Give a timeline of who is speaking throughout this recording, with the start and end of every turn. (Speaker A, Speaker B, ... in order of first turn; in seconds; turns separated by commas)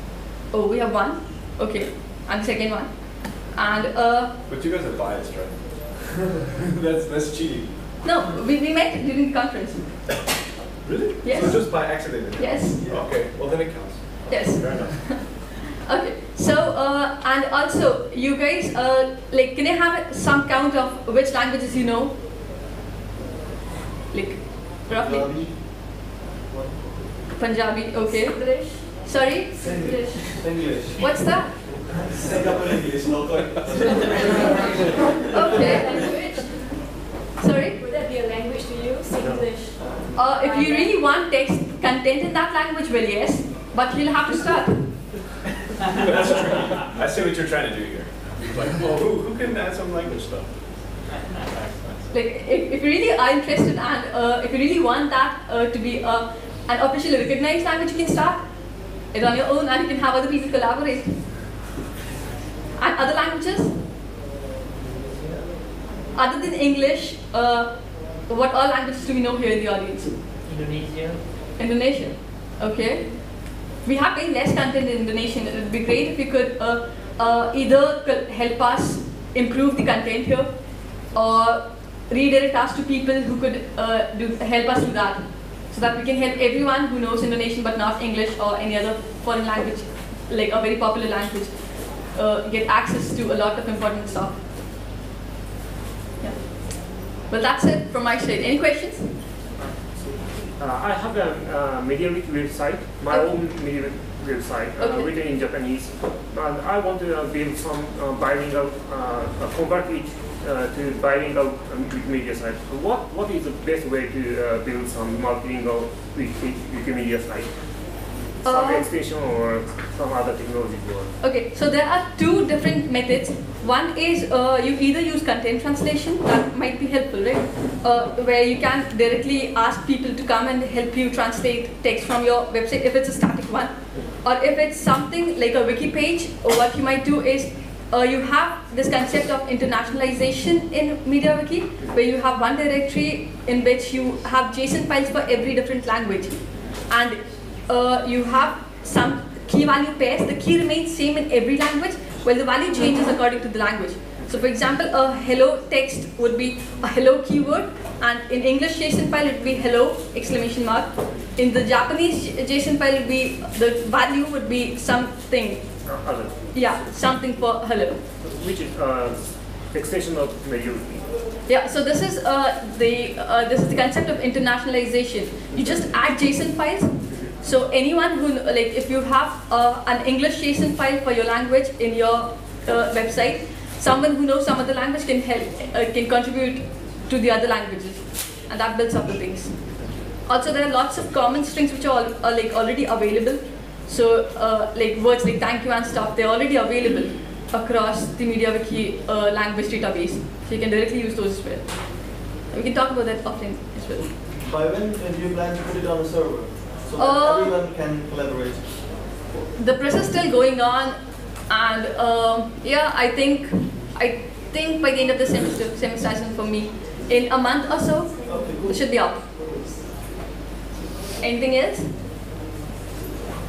Speaker A: 0.5-2.9, Speaker A: 3.5-4.3, Speaker B: 4.5-7.8, Speaker A: 8.0-9.9, Speaker B: 10.8-15.0, Speaker A: 11.2-12.8, Speaker A: 14.3-22.1, Speaker A: 24.1-25.3, Speaker C: 25.0-25.6, Speaker C: 26.5-26.9, Speaker A: 27.4-29.7, Speaker D: 28.0-30.5, Speaker C: 29.6-31.1, Speaker A: 31.0-31.5, Speaker C: 31.9-35.6, Speaker D: 34.3-34.7, Speaker A: 35.3-36.1, Speaker D: 35.4-36.6, Speaker A: 37.4-37.8, Speaker D: 37.8-40.9, Speaker A: 40.1-44.9, Speaker B: 45.9-50.5, Speaker B: 51.6-52.0, Speaker A: 52.1-58.4, Speaker A: 59.1-61.2, Speaker A: 62.8-63.7, Speaker A: 66.2-67.7, Speaker A: 68.3-70.2, Speaker A: 71.6-73.1, Speaker A: 73.8-80.5, Speaker A: 81.2-91.6, Speaker A: 92.1-94.4, Speaker A: 96.2-99.1, Speaker E: 100.4-117.5, Speaker A: 104.8-105.1, Speaker E: 118.4-121.2, Speaker A: 118.4-118.9, Speaker A: 121.2-146.4, Speaker A: 146.9-165.6, Speaker E: 165.8-166.7, Speaker A: 166.5-168.0, Speaker E: 168.2-171.1, Speaker A: 171.5-189.6, Speaker A: 190.3-201.7, Speaker A: 202.5-204.1, Speaker C: 204.4-208.9, Speaker A: 207.0-207.6, Speaker A: 209.6-211.0, Speaker A: 211.5-219.2, Speaker C: 218.3-218.7, Speaker A: 221.2-221.9